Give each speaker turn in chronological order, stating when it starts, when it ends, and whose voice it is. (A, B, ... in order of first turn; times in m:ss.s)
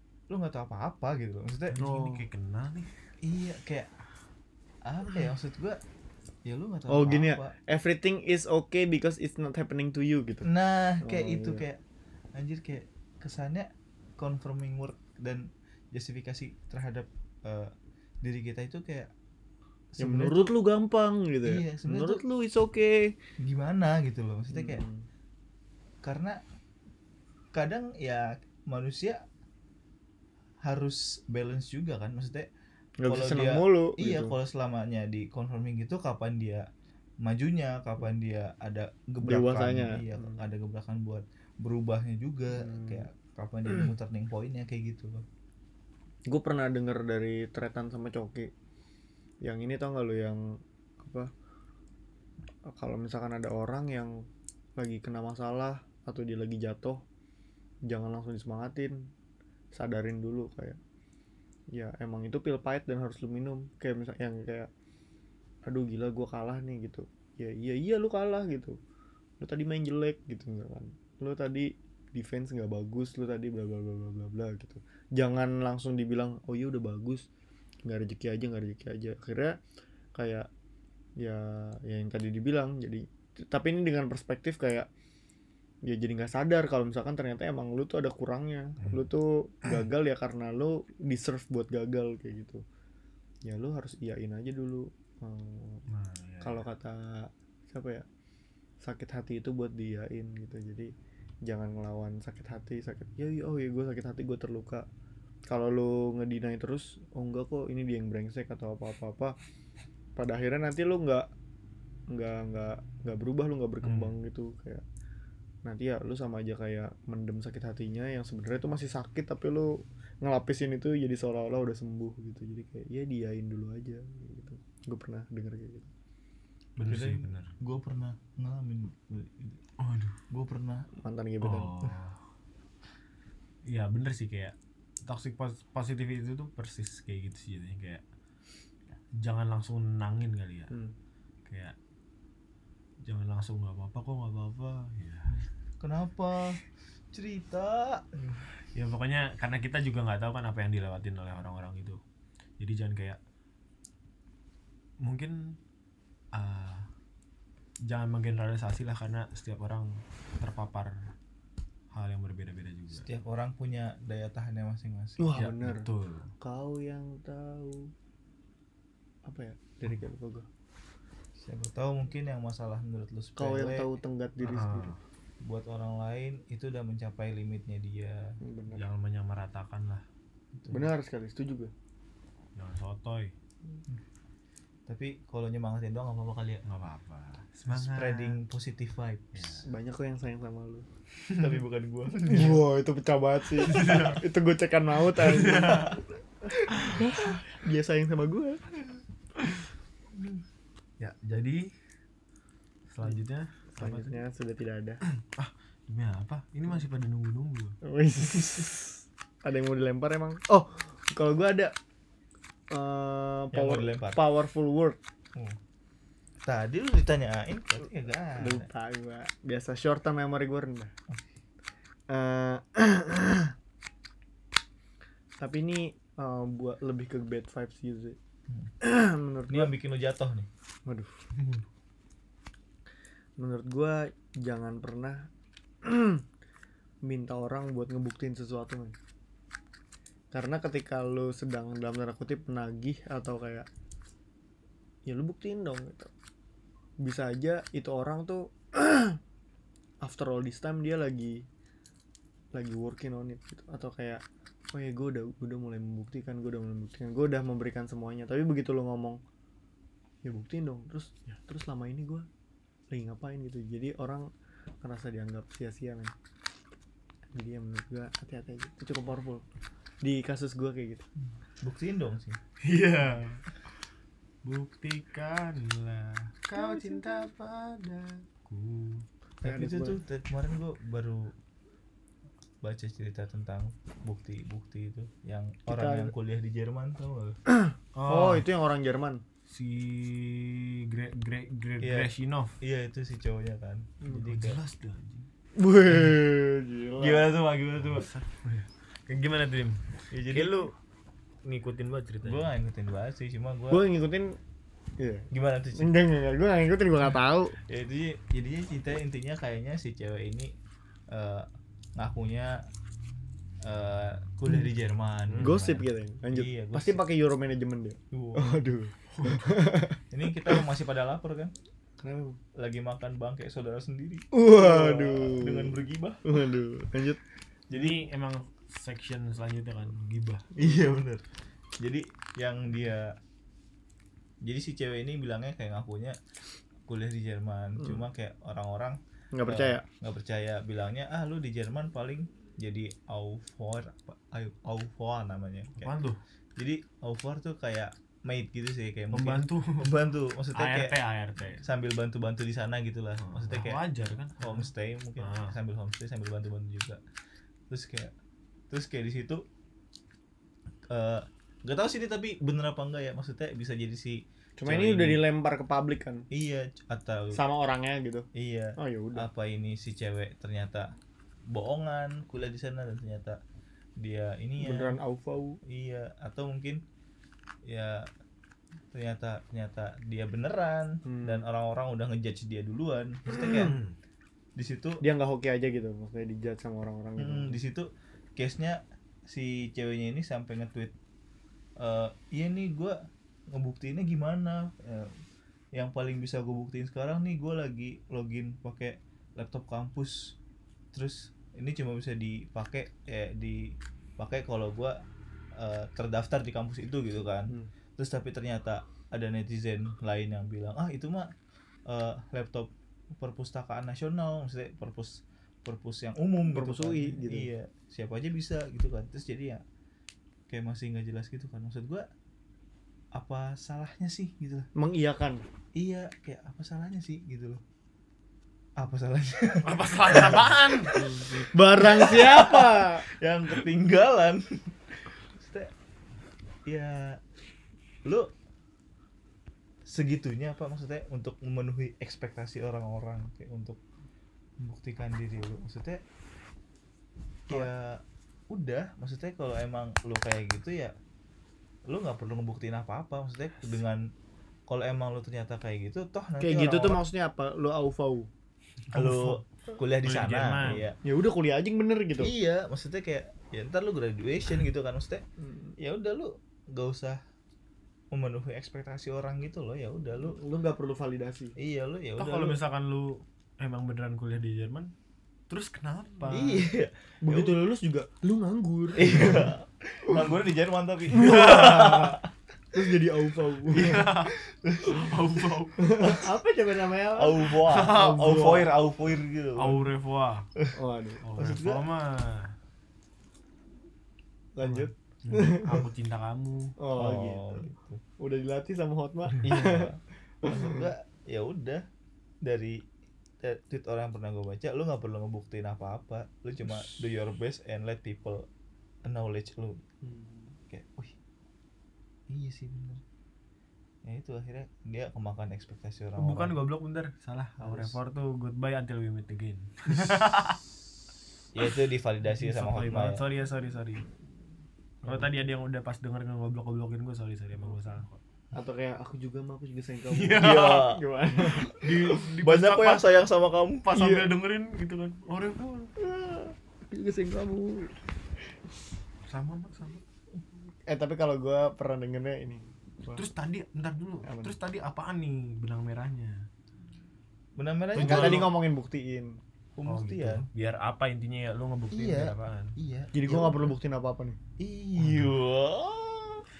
0:00.3-0:01.8 A
0:01.7-0:02.9 B
0:01.8-0:02.3 C
0:03.2-0:03.9 A
0:04.8-0:05.8 A
0:06.4-0:07.5 A
0:06.9-0:10.5 C
0:10.4-0:11.8 A
0:11.0-0:11.6 C
0:12.4-0:19.1 A
0:19.9-0:20.5 A
0:20.0-0:23.2 C
0:21.4-0:22.2 A
0:23.4-0:24.8 A
0:24.5-0:25.0 C
0:26.0-0:26.4 A
0:27.5-0:29.2 A
0:30.6-0:32.5 A
0:33.0-0:34.4 C
0:33.1-0:36.7 A
0:37.2-0:45.3 A
0:39.2-0:40.4 C
0:42.5-0:43.1 C
0:46.3-0:48.5 C
0:49.4-0:51.3 C
0:52.7-0:57.0 C
0:57.9-0:59.1 C
0:59.7-1:00.8 C
1:01.7-1:04.7 C
1:05.7-1:08.8 C
1:09.4-1:17.3 C
1:17.8-1:19.6 C
1:20.2-1:20.5 C
1:21.2-1:24.9 C
1:25.8-1:32.6 C
1:33.4-1:35.8 C
1:35.9-1:36.6 B
1:36.4-1:38.0 C
1:38.8-1:40.9 C
1:41.5-1:44.9 C
1:45.5-1:49.4 C
1:50.2-1:51.3 C
1:52.1-1:54.8 C
1:53.8-1:54.1 B
1:55.6-2:05.9 C
2:06.8-2:07.6 B
2:06.8-2:09.6 A
2:09.8-2:10.2 B
2:10.3-2:10.9 A
2:10.9-2:11.7 C
2:11.4-2:12.2 B
2:13.6-2:18.0 B
2:19.2-2:20.7 B
2:21.5-2:21.8 B
2:23.0-2:25.3 B
2:25.8-2:28.4 A
2:28.8-2:32.0 B
2:32.6-2:33.2 B
2:35.0-2:35.6 B
2:36.3-2:36.9 B
2:37.8-2:41.1 B
2:41.9-2:43.1 B
2:43.0-2:45.4 A
2:45.2-2:45.9 C
2:45.4-2:46.3 B
2:46.4-2:47.9 C
2:49.2-2:50.5 C
2:51.4-2:53.9 A
2:53.4-2:54.9 C
2:54.4-2:55.0 B
2:55.4-2:58.4 A
2:58.4-2:58.8 C
2:58.7-3:00.0 B
3:00.6-3:00.9 A
3:00.7-3:01.7 C
3:02.6-3:03.3 B
3:04.9-3:06.6 A
3:06.7-3:08.4 B
3:07.7-3:09.5 A
3:09.4-3:09.7 B
3:09.6-3:10.9 C
3:11.4-3:12.6 A
3:12.3-3:19.0 C
3:13.6-3:14.2 B
3:15.1-3:16.0 B
3:21.0-3:21.7 B
3:22.9-3:24.2 B
3:23.8-3:25.0 C
3:25.1-3:27.8 B
3:27.8-3:31.7 C
3:32.7-3:35.0 C
3:33.5-3:34.2 A
3:36.4-3:38.7 A
3:38.4-3:40.9 C
3:42.1-3:43.5 C
3:45.4-3:48.2 C
3:48.8-3:49.7 C
3:49.5-3:50.5 A
3:50.9-3:51.1 C
3:51.4-3:51.6 B
3:53.4-3:55.3 C
3:55.8-3:56.2 C
3:57.0-3:59.0 C
4:00.3-4:03.7 C
4:05.1-4:06.1 C
4:07.0-4:09.2 C
4:10.0-4:11.5 C
4:12.5-4:19.2 C
4:20.2-4:22.3 C
4:22.9-4:24.3 C
4:24.8-4:26.1 C
4:27.3-4:29.4 C
4:30.0-4:31.1 C
4:31.6-4:32.4 A
4:32.6-4:33.6 B
4:34.4-4:39.1 B
4:36.6-4:37.2 C
4:39.4-4:40.0 C
4:39.4-4:41.4 A
4:42.6-4:47.4 A
4:45.7-4:46.1 C
4:47.5-4:49.2 C
4:47.9-4:48.5 B
4:49.5-4:52.6 B
4:51.8-4:54.6 A
4:54.2-4:55.3 B
4:55.6-4:57.3 C
4:57.0-4:58.1 A
4:57.8-5:00.7 B
5:00.1-5:00.7 A
5:01.4-5:02.5 B
5:02.2-5:03.8 A
5:03.7-5:04.4 C
5:05.0-5:07.6 C
5:05.3-5:06.0 A
5:07.7-5:10.5 A
5:11.1-5:12.6 A
5:13.6-5:15.7 A
5:15.3-5:15.8 B
5:15.4-5:20.0 C
5:16.3-5:17.0 A
5:18.1-5:18.5 A
5:19.1-5:19.7 B
5:20.1-5:21.5 A
5:22.0-5:22.4 C
5:22.6-5:26.4 A
5:24.3-5:27.2 C
5:27.7-5:28.0 A
5:27.7-5:30.5 B
5:30.6-5:31.2 A
5:31.8-5:33.2 A
5:34.4-5:36.2 A
5:36.9-5:45.9 A
5:39.3-5:39.8 C
5:45.8-5:46.2 B
5:46.6-5:51.0 A
5:49.1-5:49.9 B
5:50.5-5:51.6 B
5:51.5-5:53.8 A
5:53.2-5:55.6 B
5:54.4-5:57.0 A
5:57.7-5:58.1 A
5:58.7-5:59.4 A
6:00.9-6:05.2 A
6:04.6-6:06.3 C
6:06.3-6:07.4 A
6:07.3-6:09.3 C
6:08.3-6:10.9 A
6:11.5-6:13.4 A
6:14.0-6:15.0 A
6:14.6-6:15.6 C
6:15.6-6:16.8 A
6:17.6-6:18.1 A
6:18.9-6:23.8 A
6:21.0-6:21.4 C
6:23.3-6:23.8 C
6:24.6-6:25.0 A
6:25.0-6:27.6 C
6:27.2-6:30.9 A
6:31.8-6:33.0 A
6:33.5-6:35.1 A
6:35.7-6:40.4 A
6:40.9-6:45.0 A
6:45.6-6:51.3 A
6:51.9-6:59.6 A
6:56.5-6:57.5 C
7:00.5-7:02.1 A
7:03.2-7:04.7 A
7:04.8-7:05.4 C
7:05.8-7:07.6 A
7:08.8-7:14.4 A
7:09.6-7:11.4 B
7:11.4-7:13.0 C
7:15.3-7:15.7 A
7:16.7-7:17.2 A
7:18.0-7:18.3 A
7:19.9-7:23.8 A
7:24.6-7:26.0 A
7:27.5-7:31.0 A
7:31.9-7:34.1 A
7:34.7-7:37.0 A
7:36.4-7:38.3 C
7:38.9-7:39.4 B
7:38.9-7:41.0 A
7:40.0-7:40.9 B
7:41.0-7:42.3 C
7:42.2-7:45.2 A
7:45.4-7:45.7 C
7:45.8-7:47.2 A
7:48.1-7:50.4 A
7:50.2-7:51.6 C
7:51.6-7:52.6 A
7:52.2-7:54.9 B
7:55.5-7:56.6 B
7:56.3-7:57.6 A
7:57.2-7:59.5 C
7:59.0-8:02.3 A
8:01.1-8:02.2 C
8:02.7-8:04.1 C
8:03.7-8:04.3 B
8:03.8-8:06.3 A
8:05.0-8:05.8 B
8:05.8-8:07.6 C
8:07.2-8:09.8 A
8:07.7-8:08.6 B
8:08.1-8:08.6 C
8:09.6-8:10.5 B
8:10.8-8:11.2 C
8:11.2-8:12.5 B
8:11.4-8:11.9 A
8:14.6-8:15.8 C
8:14.6-8:16.8 B
8:16.8-8:17.7 C
8:17.0-8:18.0 A
8:18.2-8:20.8 C
8:19.4-8:21.8 A
8:22.4-8:22.8 A
8:23.4-8:28.5 A
8:29.0-8:29.8 A
8:30.0-8:30.5 C
8:30.7-8:31.2 A
8:32.3-8:33.0 A
8:34.0-8:36.6 A
8:36.2-8:40.6 B
8:37.6-8:38.0 C
8:41.5-8:43.2 A
8:42.3-8:44.1 B
8:45.0-8:48.2 B
8:48.5-8:52.3 C
8:50.1-8:50.9 B
8:50.4-8:51.0 A
8:51.5-8:53.2 B
8:52.4-8:53.9 A
8:53.8-8:55.9 B
8:53.9-8:54.3 C
8:56.0-8:58.0 C
8:59.3-9:00.0 B
9:00.9-9:03.2 C
9:03.1-9:06.5 B
9:04.2-9:04.5 C
9:07.6-9:08.5 A
9:08.0-9:08.5 B
9:08.0-9:09.4 C
9:09.8-9:10.5 A
9:09.9-9:12.8 B
9:11.9-9:13.7 A
9:13.1-9:14.4 C
9:14.6-9:16.4 A
9:15.0-9:15.3 B